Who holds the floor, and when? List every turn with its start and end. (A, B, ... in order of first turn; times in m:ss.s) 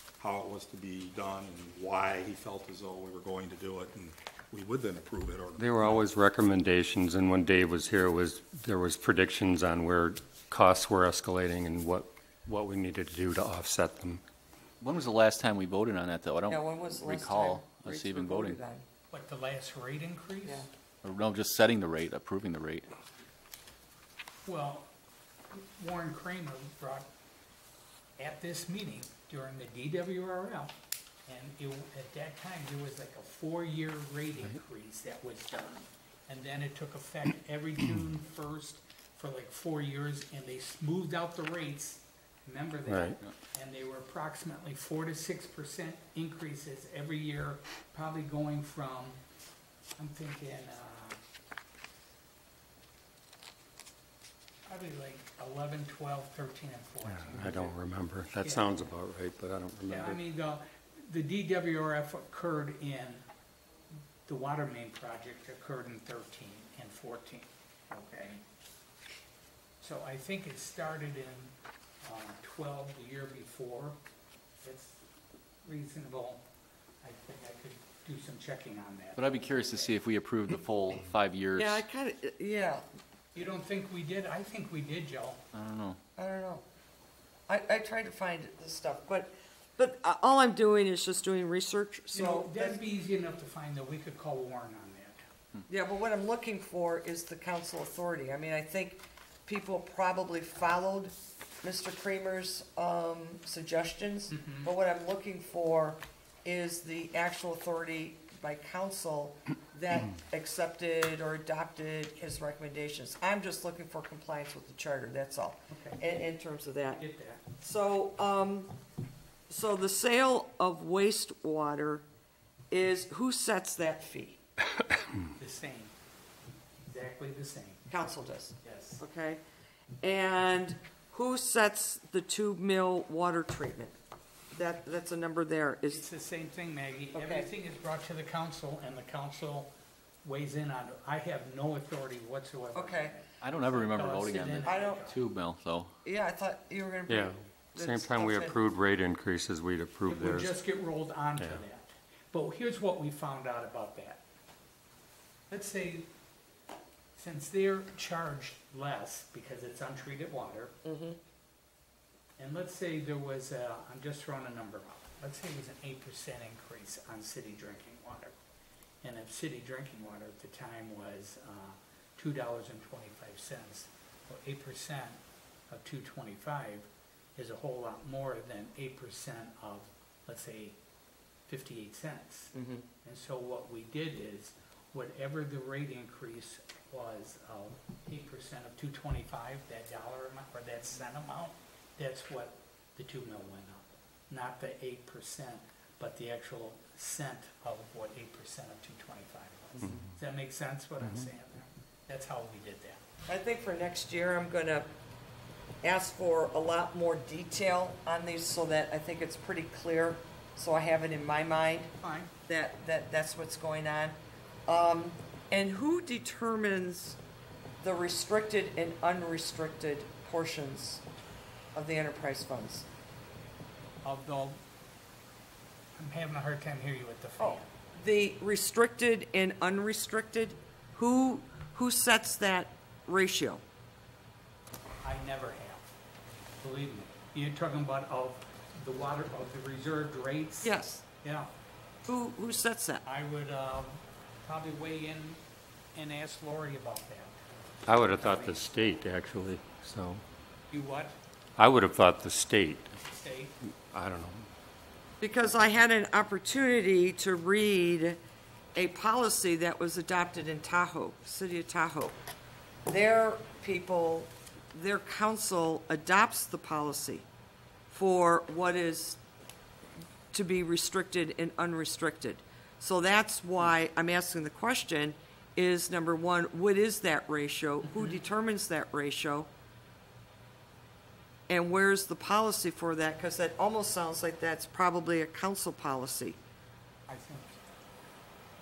0:00.2-0:06.0 A
0:05.6-0:14.2 B
0:14.8-0:18.6 C
0:16.5-0:18.9 D
0:19.1-0:20.7 E
0:21.0-0:22.9 C
0:24.4-0:24.9 E
0:25.5-0:27.1 E
0:28.2-0:49.2 E
0:42.9-0:43.2 B
0:50.0-0:51.2 E
0:54.6-0:57.8 E
0:57.1-1:00.2 B
0:58.4-0:58.9 E
0:59.9-1:03.3 E
1:04.3-1:08.4 E
1:09.8-1:14.0 E
1:14.6-1:15.0 E
1:15.6-1:16.5 E
1:17.0-1:20.0 E
1:19.2-1:21.8 C
1:21.6-1:22.8 D
1:23.3-1:25.5 E
1:25.5-1:26.0 C
1:26.2-1:26.6 D
1:27.5-1:32.8 D
1:32.1-1:35.3 E
1:35.7-1:57.0 D
1:44.3-1:44.7 E
1:55.7-1:56.0 E
1:57.0-1:57.5 E
1:57.6-1:58.8 D
1:59.5-2:02.0 D
2:02.7-2:04.4 D
2:05.4-2:05.9 E
2:06.8-2:07.9 E
2:07.9-2:09.4 D
2:08.7-2:09.0 E
2:10.0-2:14.0 D
2:14.5-2:16.0 D
2:15.9-2:25.2 E
2:17.1-2:17.5 D
2:22.7-2:23.2 D
2:23.4-2:26.0 C
2:24.6-2:25.0 D
2:26.0-2:28.6 D
2:27.1-2:30.5 B
2:30.1-2:34.2 E
2:31.4-2:31.6 B
2:35.5-2:36.1 E
2:37.2-2:40.8 E
2:40.9-2:41.2 D
2:42.4-2:48.4 E
2:49.0-3:00.8 E
3:01.5-3:23.0 E
3:02.6-3:02.9 D
3:23.3-3:24.9 D
3:25.8-3:31.9 D
3:32.0-3:32.3 E
3:32.5-3:37.2 D
3:37.8-3:41.0 D
3:41.7-3:42.9 D
3:44.0-3:44.6 E
3:46.0-3:47.7 E
3:47.4-3:53.6 D
3:55.0-3:56.0 E
3:56.6-4:01.5 E
4:00.6-4:01.0 D
4:02.1-4:03.0 D
4:03.0-4:05.4 E
4:05.9-4:09.0 E
4:07.9-4:10.2 B
4:10.7-4:11.2 E
4:11.6-4:12.9 B
4:13.0-4:13.6 E
4:13.9-4:14.5 B
4:15.2-4:18.2 D
4:18.8-4:22.2 D
4:22.9-4:27.3 D
4:27.9-4:29.2 D
4:30.3-4:39.5 D
4:41.5-4:46.4 D
4:47.1-4:47.6 E